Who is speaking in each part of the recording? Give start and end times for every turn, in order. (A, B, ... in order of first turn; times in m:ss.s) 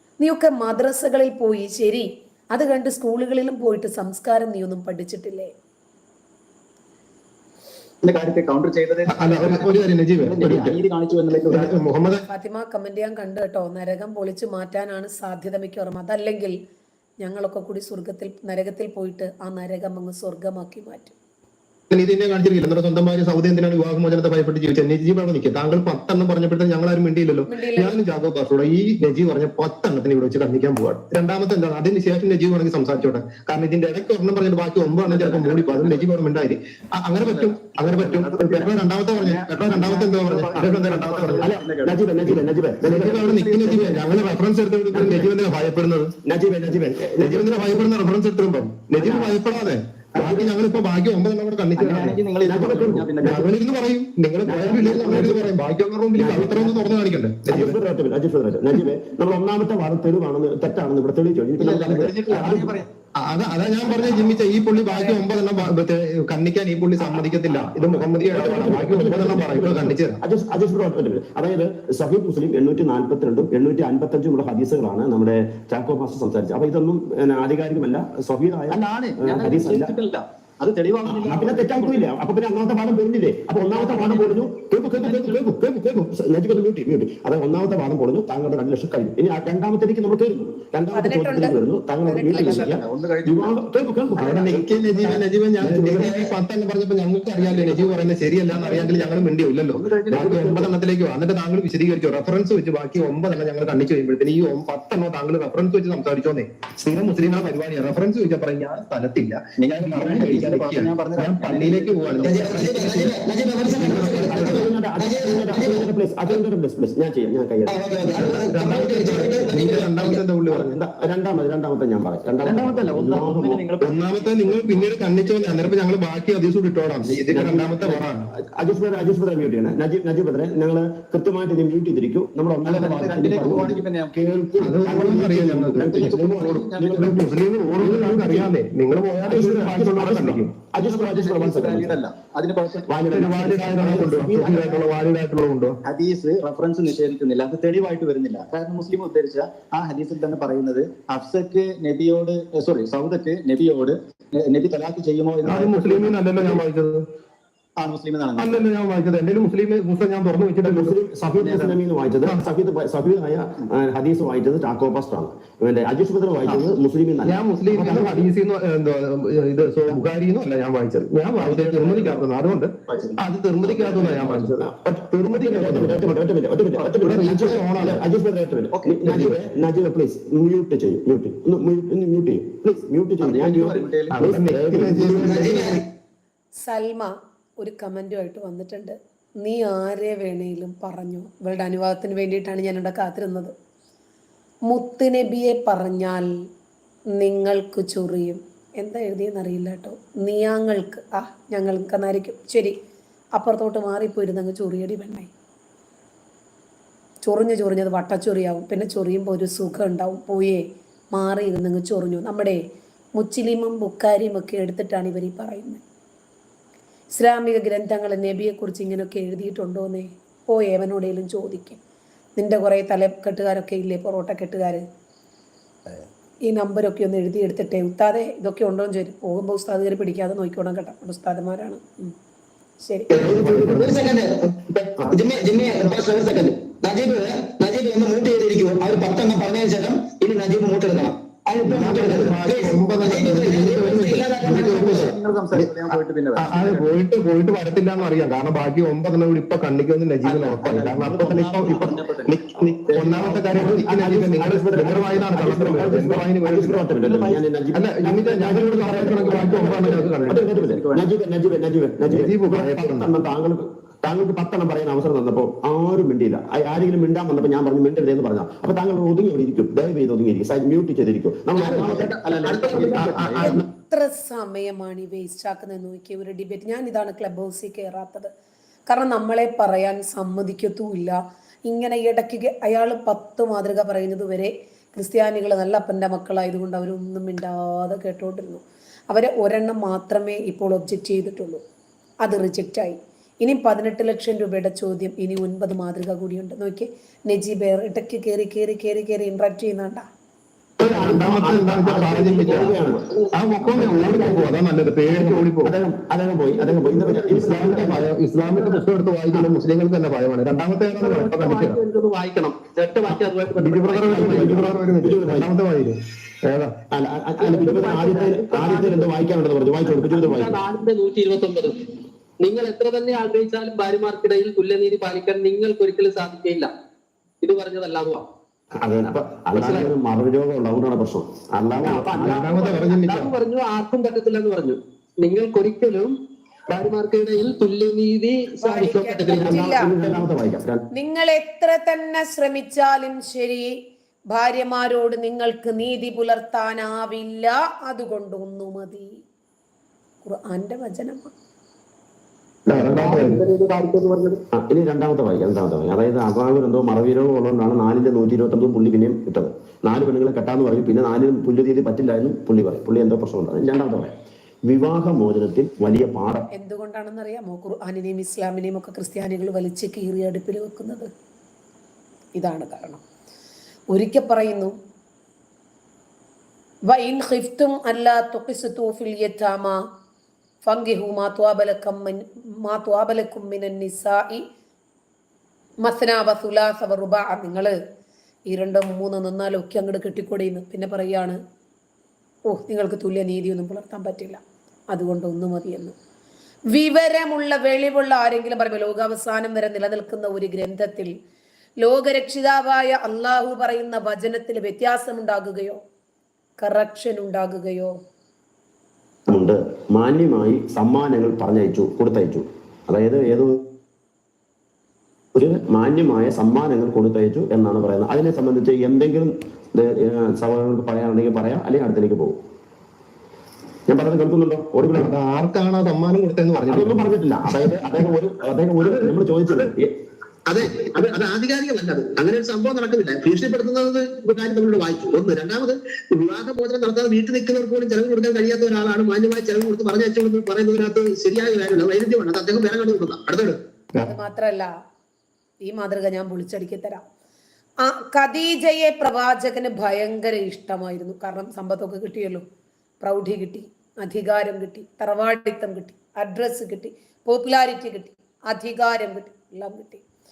0:00.2-0:05.5 A
0:08.0-0:11.8 B
0:09.1-0:10.8 C
0:11.5-0:12.2 C
0:12.3-0:16.6 A
0:17.2-0:21.1 A
0:21.9-0:41.5 C
0:27.5-0:28.0 A
0:35.1-0:36.1 B
0:37.2-0:44.3 B
0:41.4-0:44.0 D
0:43.0-0:46.1 C
0:44.9-0:45.3 D
0:46.2-0:47.8 D
0:47.2-0:52.2 C
0:48.9-0:49.4 D
0:50.2-0:50.5 B
0:51.8-0:53.5 B
0:52.4-0:53.1 D
0:53.2-0:57.8 C
0:54.4-0:55.5 D
0:56.2-0:56.8 D
0:57.5-1:02.8 D
1:01.6-1:02.9 B
1:03.2-1:10.2 C
1:07.7-1:19.9 D
1:18.7-1:22.1 B
1:21.0-1:36.1 D
1:23.7-1:25.4 B
1:30.9-1:32.8 A
1:32.3-1:33.5 B
1:34.2-1:53.1 C
1:36.0-1:36.3 E
1:37.4-1:38.0 E
1:38.5-1:40.7 B
1:40.1-1:40.7 D
1:49.6-1:52.8 B
1:52.2-1:55.9 E
1:53.7-1:59.2 D
1:53.8-1:54.3 C
1:57.7-2:00.2 E
1:58.4-2:00.8 C
2:00.5-2:03.6 D
2:02.4-2:05.6 B
2:03.8-2:08.3 C
2:07.1-2:18.5 D
2:12.6-2:14.1 B
2:14.6-2:16.0 C
2:14.7-2:17.5 B
2:17.0-2:20.5 C
2:19.2-2:22.0 D
2:20.8-2:22.9 B
2:22.9-2:24.7 D
2:23.1-2:25.8 C
2:24.5-2:24.8 B
2:25.8-2:36.6 B
2:35.5-2:37.1 C
2:37.8-2:38.7 B
2:38.4-2:41.0 C
2:40.6-2:48.3 D
2:41.4-2:41.8 B
2:47.3-2:56.0 C
2:47.8-2:48.1 B
2:51.4-2:52.3 B
2:53.6-2:54.5 B
2:54.6-3:05.7 D
2:57.0-2:58.0 C
2:58.7-2:59.3 B
3:03.2-3:04.4 B
3:04.1-3:05.8 C
3:05.0-3:05.8 E
3:06.6-3:13.5 A
3:14.7-3:16.3 A
3:17.2-3:22.7 A
3:23.4-3:25.3 A
3:27.2-3:32.6 A
3:33.2-3:35.8 A
3:37.1-3:41.8 A
3:42.4-3:44.8 A
3:46.5-3:52.1 A
3:52.8-3:53.2 A
3:53.1-4:05.1 E
3:53.1-3:54.9 C
3:55.0-3:56.4 B
4:01.6-4:05.0 C
4:04.5-4:07.0 B
4:06.4-4:16.8 C
4:10.2-4:13.7 B
4:13.5-4:32.2 D
4:17.0-4:17.4 B
4:17.7-4:20.4 C
4:18.9-4:21.1 B
4:22.0-4:23.1 C
4:31.5-4:33.6 B
4:32.5-4:33.6 C
4:32.7-4:33.1 D
4:33.4-4:38.3 A
4:38.9-4:51.6 A
4:52.2-5:00.1 A
5:00.8-5:04.5 D
5:00.8-5:02.8 C
5:03.3-5:05.7 C
5:05.1-5:08.1 D
5:06.6-5:07.4 B
5:07.1-5:11.8 C
5:10.9-5:14.2 F
5:13.1-5:16.8 C
5:14.1-5:15.5 D
5:14.2-5:14.6 B
5:16.9-5:20.6 D
5:17.4-5:17.8 C
5:17.8-5:19.0 F
5:18.2-5:18.5 B
5:20.1-5:21.8 F
5:22.4-5:26.7 F
5:27.4-5:28.3 F
5:28.8-5:32.7 D
5:32.2-5:33.4 C
5:32.2-5:36.1 F
5:36.7-5:39.4 F
5:38.6-5:39.9 A
5:38.8-5:39.4 C
5:39.4-5:40.8 D
5:41.0-5:43.8 A
5:44.3-5:49.2 A
5:50.2-5:51.3 A
5:52.7-5:53.4 D
5:52.7-5:53.4 C
5:53.0-5:53.5 F
5:53.5-5:54.3 B
5:54.5-6:04.1 D
6:04.7-6:06.5 D
6:06.5-6:11.1 A
6:12.4-6:13.0 A
6:13.9-6:14.7 A
6:16.9-6:19.8 A
6:20.6-6:24.4 A
6:25.8-6:27.8 A
6:28.5-6:31.4 A
6:32.5-6:35.9 A
6:36.7-6:41.1 A
6:41.8-6:45.8 A
6:46.6-6:47.9 A
6:49.3-6:53.6 D
6:55.4-7:02.4 D
7:03.9-7:05.1 D
7:05.0-7:07.0 C
7:06.6-7:09.9 D
7:10.5-7:24.1 C
7:14.9-7:15.2 E
7:24.0-7:24.7 A
7:25.6-7:27.0 A
7:27.8-7:32.4 A
7:33.0-7:40.0 A